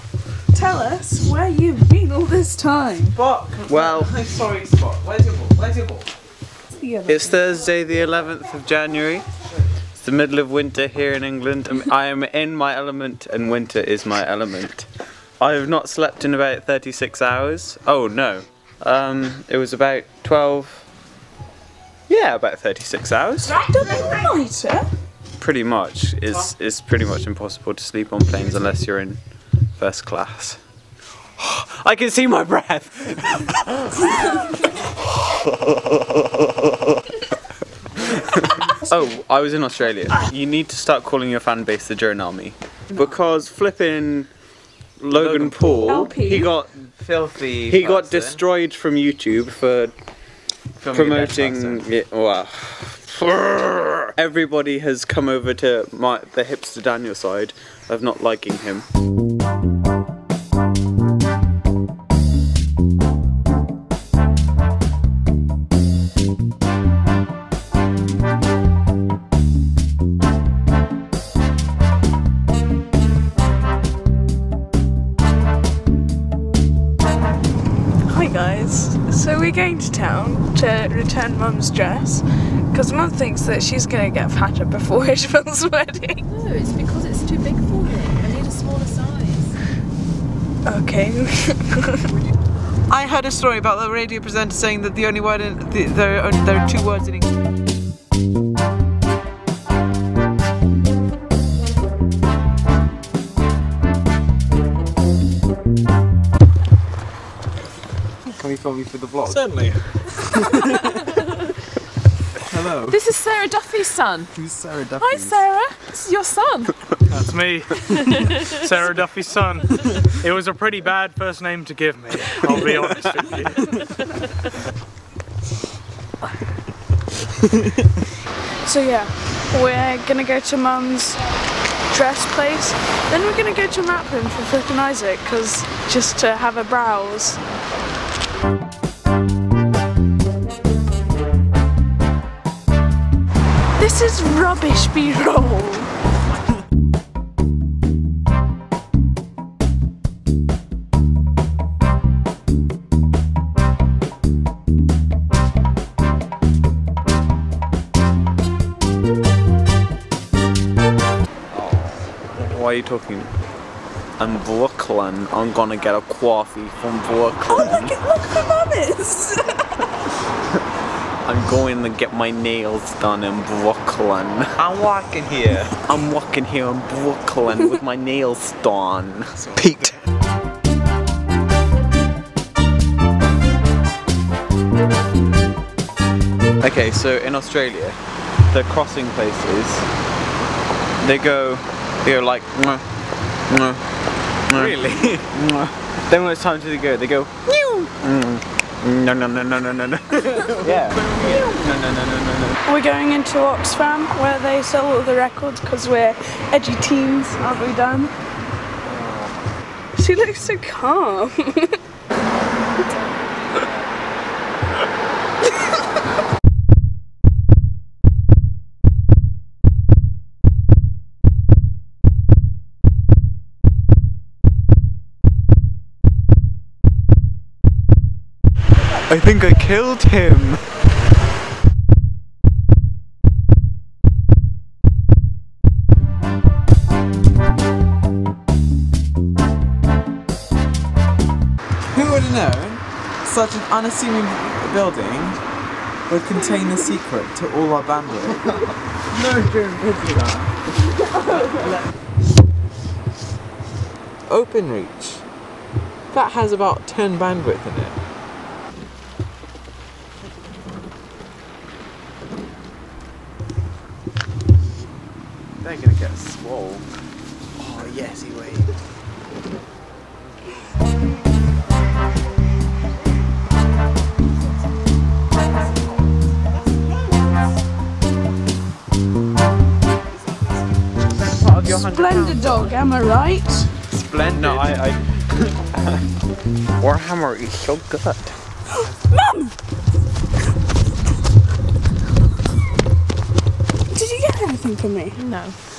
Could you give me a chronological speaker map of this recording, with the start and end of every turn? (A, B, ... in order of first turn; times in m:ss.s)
0:00.5-0:03.2 A
0:03.1-0:06.1 B
0:03.7-0:04.2 C
0:06.7-0:07.4 A
0:07.1-0:09.3 C
0:10.0-0:20.8 C
0:22.1-0:23.6 C
0:23.4-0:24.9 A
0:25.4-0:29.2 C
0:29.8-0:30.6 C
0:31.4-0:34.4 C
0:35.4-0:36.7 C
0:38.2-0:44.3 C
0:45.0-0:46.7 C
0:45.1-0:48.4 B
0:45.9-0:46.5 A
0:47.7-0:49.9 C
0:50.8-0:51.9 B
0:50.9-0:58.9 C
1:18.1-1:26.2 A
1:26.3-1:29.6 D
1:30.6-1:32.1 A
1:32.9-1:37.3 B
1:48.4-1:50.9 B
1:52.4-1:53.0 B
1:52.9-1:54.3 D
1:54.3-1:55.4 B
1:55.0-1:57.0 D
1:57.1-2:03.9 E
2:08.6-2:17.4 A
2:23.8-2:25.9 A
2:42.2-2:43.3 C
2:44.2-2:48.0 C
2:47.5-2:49.7 A
2:51.2-2:54.6 C
2:54.6-2:55.8 B
2:55.8-2:59.9 C
2:59.4-3:00.0 B
3:06.6-3:09.9 C
3:11.0-3:12.8 C
3:13.5-3:13.8 C
3:14.5-3:22.6 C
3:14.5-3:15.3 B
3:17.6-3:17.9 B
3:20.5-3:21.2 B
3:21.2-3:21.6 A
3:22.6-3:28.1 A
3:30.0-3:31.8 A
3:49.1-3:50.6 C
4:01.9-4:05.4 B
4:06.1-4:08.4 B
4:09.1-4:10.5 B
4:14.3-4:15.2 B
4:16.1-4:18.0 B
4:25.6-4:26.8 B
4:27.6-4:28.7 B
4:41.1-4:42.8 C
4:41.7-4:43.7 A
4:43.9-4:44.9 B
4:44.3-4:46.0 C
4:46.8-4:48.4 C
4:48.8-4:49.5 A
4:53.9-4:55.3 A
4:55.2-4:55.6 D